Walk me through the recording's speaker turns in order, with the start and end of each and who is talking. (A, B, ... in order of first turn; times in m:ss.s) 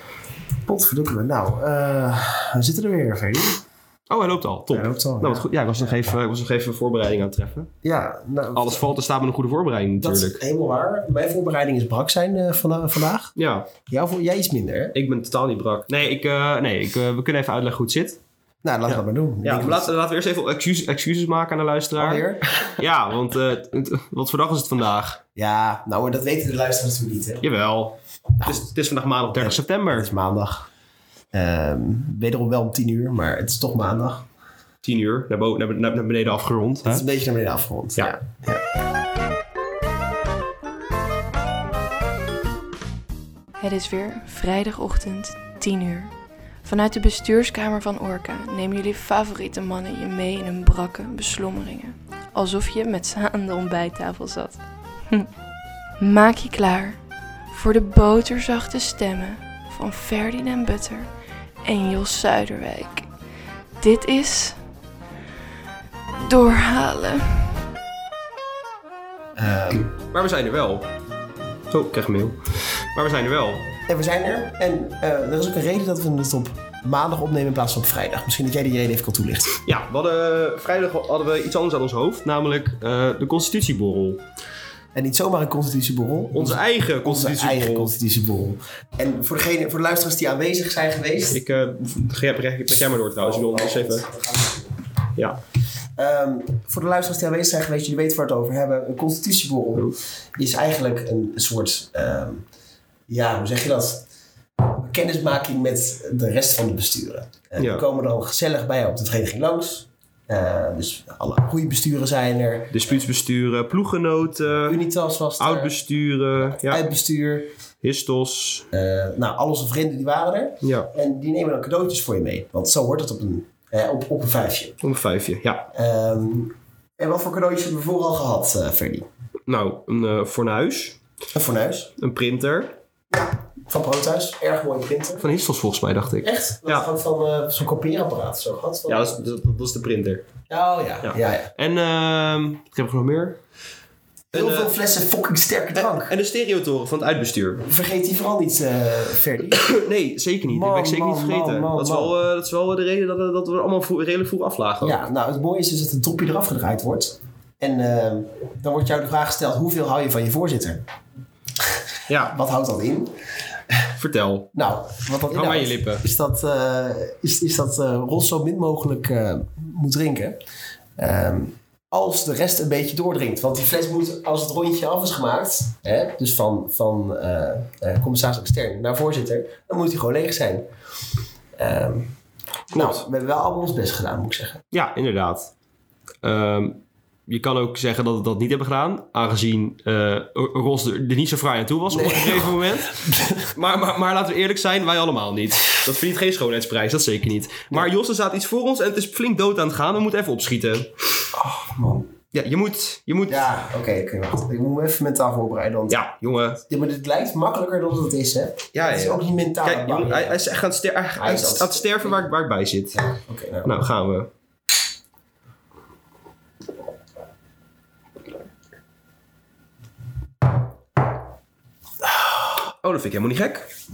0:00.6-0:03.6 A
0:04.1-0:07.7 B
0:04.7-0:05.5 A
0:07.8-0:08.8 A
0:08.5-0:10.4 B
0:10.0-0:14.9 A
0:13.4-0:13.7 B
0:14.9-0:18.2 B
0:18.6-0:19.9 A
0:18.9-0:25.2 B
0:22.0-0:22.7 A
0:25.4-0:27.4 A
0:27.4-0:30.1 B
0:28.4-0:28.7 A
0:29.4-0:30.7 A
0:31.3-0:34.2 A
0:34.8-0:37.0 B
0:36.8-0:38.6 A
0:43.6-0:46.1 C
0:46.6-0:55.3 C
0:56.0-0:57.0 C
0:57.5-1:01.1 C
1:01.6-1:03.1 C
1:03.8-1:04.6 C
1:06.2-1:07.5 C
1:09.4-1:09.9 A
1:10.1-1:10.9 B
1:11.7-1:13.7 B
1:13.9-1:19.5 A
1:19.6-1:24.2 B
1:24.9-1:31.4 A
1:26.3-1:27.9 B
1:31.3-1:34.1 B
1:33.2-1:34.7 A
1:36.0-1:42.4 A
1:43.1-1:44.0 A
1:44.6-1:52.9 A
1:47.6-1:47.8 B
1:52.7-1:54.8 B
1:54.6-1:55.7 A
1:55.4-1:56.8 B
1:56.4-1:57.5 A
1:57.8-1:58.6 B
1:58.7-2:04.8 A
2:00.6-2:00.9 B
2:04.8-2:05.7 B
2:05.7-2:09.1 A
2:09.5-2:11.0 B
2:11.3-2:11.9 A
2:12.0-2:12.7 B
2:13.1-2:15.3 A
2:15.2-2:16.9 B
2:16.2-2:19.2 A
2:18.9-2:20.2 B
2:20.5-2:21.5 A
2:21.0-2:23.4 B
2:24.3-2:26.1 A
2:24.3-2:24.7 B
2:25.8-2:27.6 B
2:27.6-2:29.7 A
2:29.6-2:35.0 B
2:30.5-2:32.2 A
2:34.8-2:40.8 A
2:41.6-2:43.1 A
2:42.1-2:42.3 B
2:43.9-2:44.5 B
2:44.5-2:50.4 A
2:45.3-2:46.0 B
2:51.0-3:00.7 A
3:01.6-3:02.1 A
3:02.7-3:04.6 A
3:02.7-3:03.0 B
3:04.7-3:05.5 B
3:06.2-3:20.9 B
3:11.9-3:13.5 A
3:21.3-3:22.1 A
3:22.3-3:23.5 B
3:23.3-3:26.0 A
3:25.9-3:26.6 B
3:26.6-3:30.4 A
3:28.7-3:33.1 B
3:31.2-3:32.2 A
3:33.0-3:33.7 A
3:33.6-3:34.3 B
3:42.8-3:43.7 B